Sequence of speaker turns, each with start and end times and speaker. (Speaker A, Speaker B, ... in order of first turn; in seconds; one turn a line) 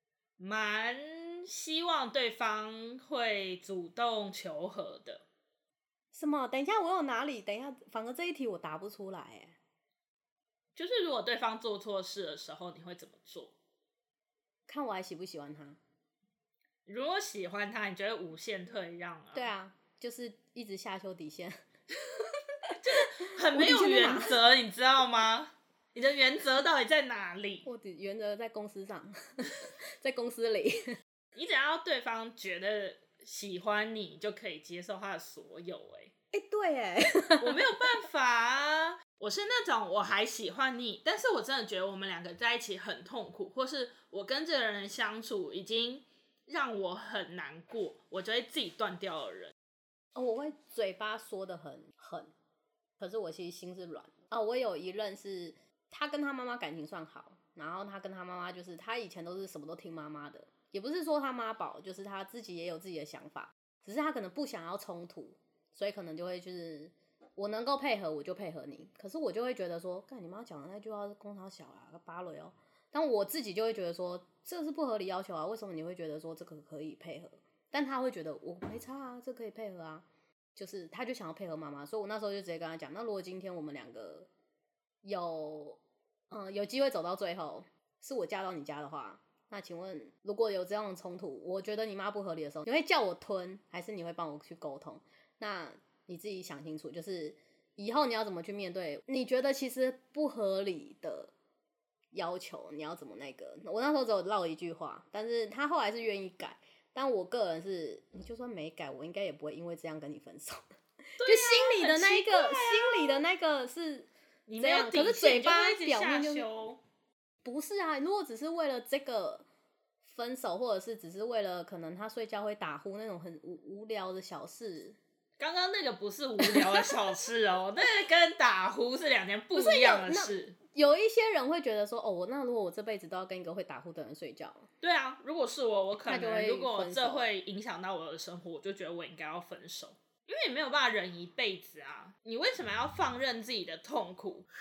Speaker A: 0.4-5.2
Speaker B: 6.1-9.6
Speaker A: 10.8-13.5
Speaker B: 14.7-15.8
Speaker A: 16.9-19.5
Speaker B: 19.3-21.6
Speaker B: 22.1-24.4
Speaker A: 22.7-27.7
Speaker B: 27.6-31.0
Speaker A: 31.4-36.1
Speaker B: 36.3-37.6
Speaker A: 37.4-49.5
Speaker B: 50.1-52.3
Speaker B: 53.0-84.3
Speaker B: 85.0-101.3
Speaker B: 102.1-110.6
Speaker B: 111.2-116.5
Speaker A: 111.2-113.2
Speaker A: 114.5-116.8
Speaker B: 117.4-119.5
Speaker B: 120.0-125.0
Speaker A: 125.4-130.6
Speaker B: 126.4-126.9
Speaker B: 129.5-134.7
Speaker A: 134.8-144.5
Speaker B: 136.1-137.3